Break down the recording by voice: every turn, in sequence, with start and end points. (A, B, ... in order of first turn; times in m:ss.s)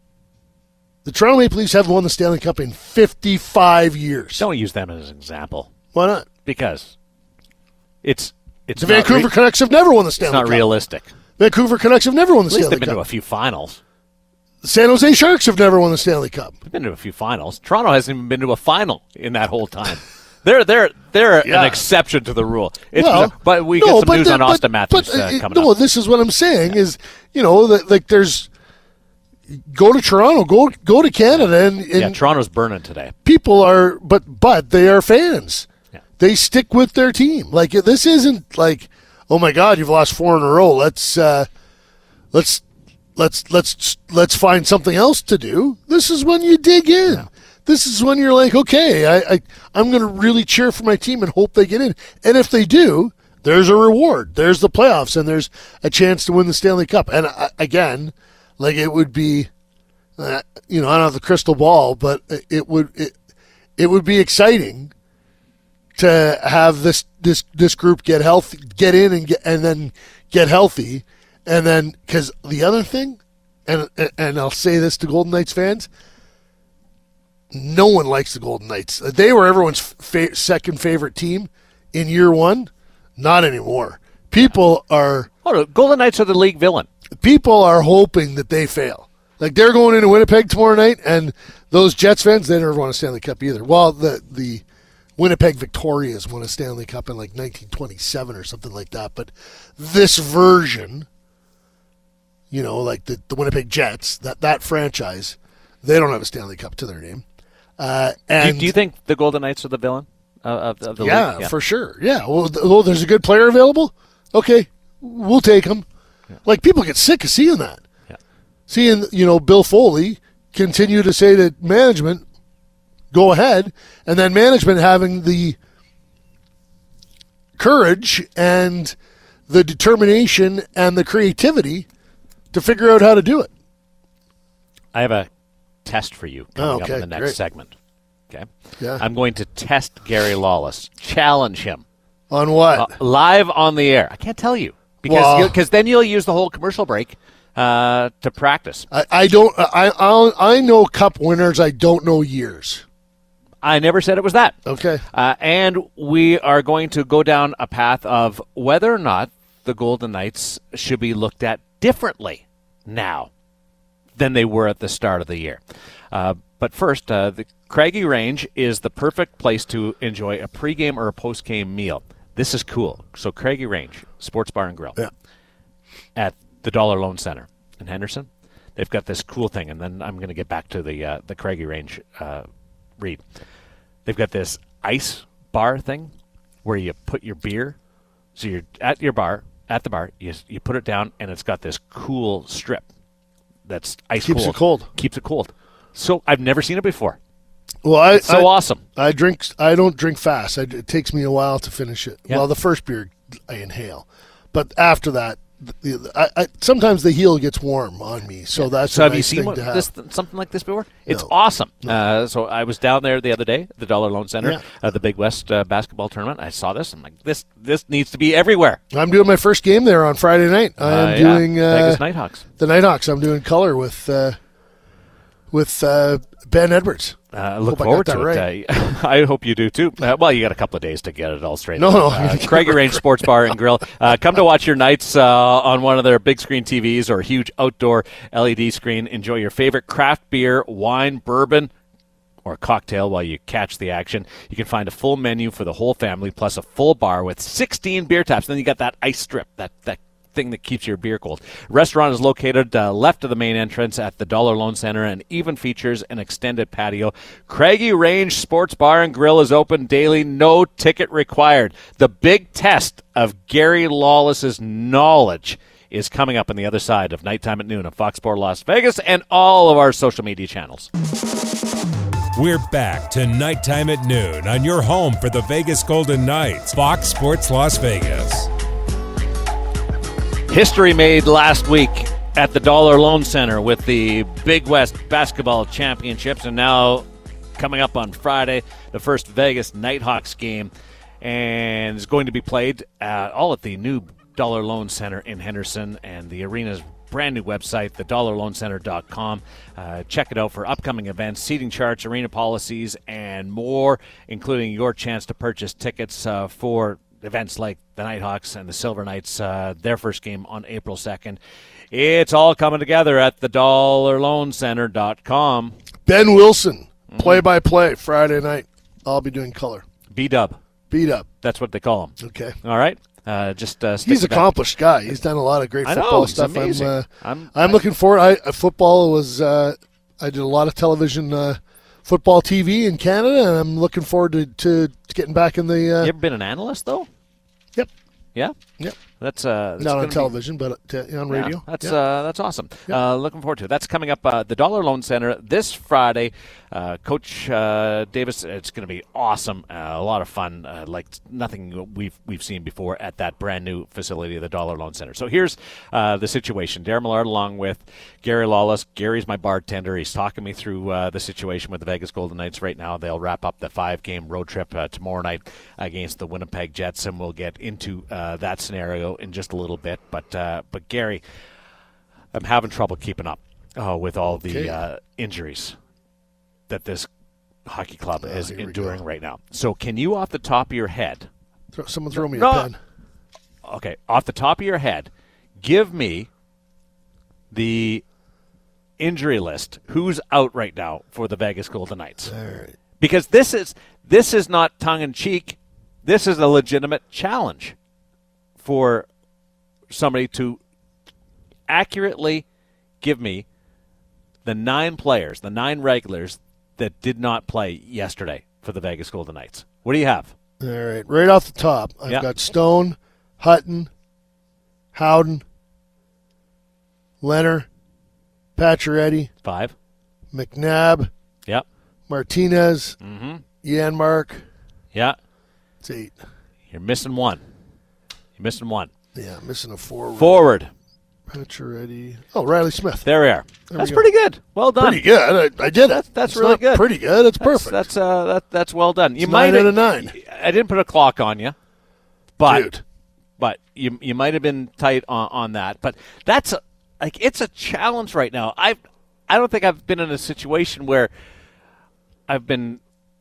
0:01.0-0:04.4 A
0:04.4-0:05.7 B
0:05.9-0:06.3 A
0:06.4-0:06.9 B
0:08.0-0:09.3 B
0:08.8-0:10.7 A
0:10.2-0:11.1 B
0:11.4-0:13.0 A
0:12.5-0:13.8 B
0:14.6-0:16.6 A
0:16.6-0:25.7 B
0:21.4-0:21.8 A
0:23.0-0:28.5 A
0:29.5-0:32.2 A
0:31.9-0:33.1 B
0:33.2-0:35.7 A
0:36.2-0:41.5 A
0:42.3-0:42.6 A
0:43.2-0:59.5 A
1:00.2-1:03.2 A
1:03.8-1:04.9 A
1:06.0-1:15.9 A
1:17.5-1:25.3 A
1:25.4-1:26.9 B
1:27.2-1:34.6 A
1:35.2-1:41.1 A
1:42.5-1:47.2 A
1:47.8-1:48.8 A
1:48.4-1:51.5 B
1:51.0-1:55.9 A
1:56.4-1:57.8 A
1:58.7-2:02.2 A
2:03.1-2:05.6 A
2:07.6-2:09.0 A
2:09.5-2:11.9 A
2:12.5-2:13.5 A
2:14.9-2:15.3 B
2:15.8-2:17.8 B
2:16.6-2:17.4 A
2:18.3-2:21.8 B
2:22.3-2:23.0 A
2:22.8-2:28.9 B
2:25.1-2:25.6 A
2:28.9-2:32.8 A
2:33.6-2:34.6 B
2:34.7-2:35.0 A
2:35.1-2:43.3 B
2:44.2-2:45.6 B
2:46.1-2:55.0 B
2:56.2-3:02.5 B
3:03.0-3:03.2 B
3:04.0-3:06.1 B
3:06.6-3:07.8 B
3:08.4-3:12.9 B
3:13.7-3:17.2 B
3:14.2-3:14.9 A
3:17.8-3:29.9 A
3:18.1-3:18.8 B
3:28.6-3:38.8 B
3:38.9-3:42.0 A
3:40.8-3:42.4 B
3:42.6-3:44.4 A
3:45.5-3:48.5 A
3:47.3-4:01.7 B
3:51.8-3:53.3 A
4:02.4-4:30.9 B
4:32.4-4:38.5 C
4:40.5-5:11.4 B
5:11.9-5:15.8 B
5:16.1-5:19.8 A
5:17.1-5:17.4 B
5:20.1-5:20.6 B
5:20.9-5:21.3 A
5:21.4-5:24.5 B
5:22.2-5:22.6 A
5:24.0-5:36.1 A
5:25.8-5:27.8 B
5:36.0-5:37.1 B
5:39.1-5:40.3 B
5:39.8-5:42.0 A
5:41.3-6:11.2 B
6:12.3-6:15.8 B
6:14.3-6:14.8 A
6:16.7-6:17.1 B
6:17.7-6:21.3 B
6:18.2-6:19.0 A
6:21.7-6:22.8 A
6:22.1-6:22.7 B
6:23.6-6:25.1 B
6:25.6-6:26.3 B
6:27.5-6:28.0 B
6:29.0-6:32.3 B
6:32.3-6:32.8 A
6:33.0-6:37.8 B
6:38.6-6:39.1 B
6:39.9-6:40.6 B
6:41.7-6:42.5 B
6:43.0-6:43.5 B
6:44.4-6:50.3 B
6:50.6-6:53.9 A
6:54.9-6:55.4 A
6:57.2-6:57.7 A
6:58.6-6:59.3 A
6:59.4-6:59.8 B
7:00.3-7:01.1 A
7:02.1-7:03.0 A
7:03.0-7:03.4 B
7:03.6-7:04.5 A
7:05.8-7:06.2 A
7:06.7-7:07.4 B
7:08.4-7:08.9 B
7:09.1-7:10.5 A
7:10.2-7:10.7 B
7:11.3-7:13.1 A
7:13.0-7:15.0 B
7:13.7-7:14.1 A
7:14.8-7:17.8 A
7:15.7-7:16.9 B
7:17.4-7:21.6 B
7:19.2-7:20.1 A
7:22.4-7:22.7 B
7:22.5-7:22.8 A
7:23.4-7:31.1 B
7:32.3-7:32.8 B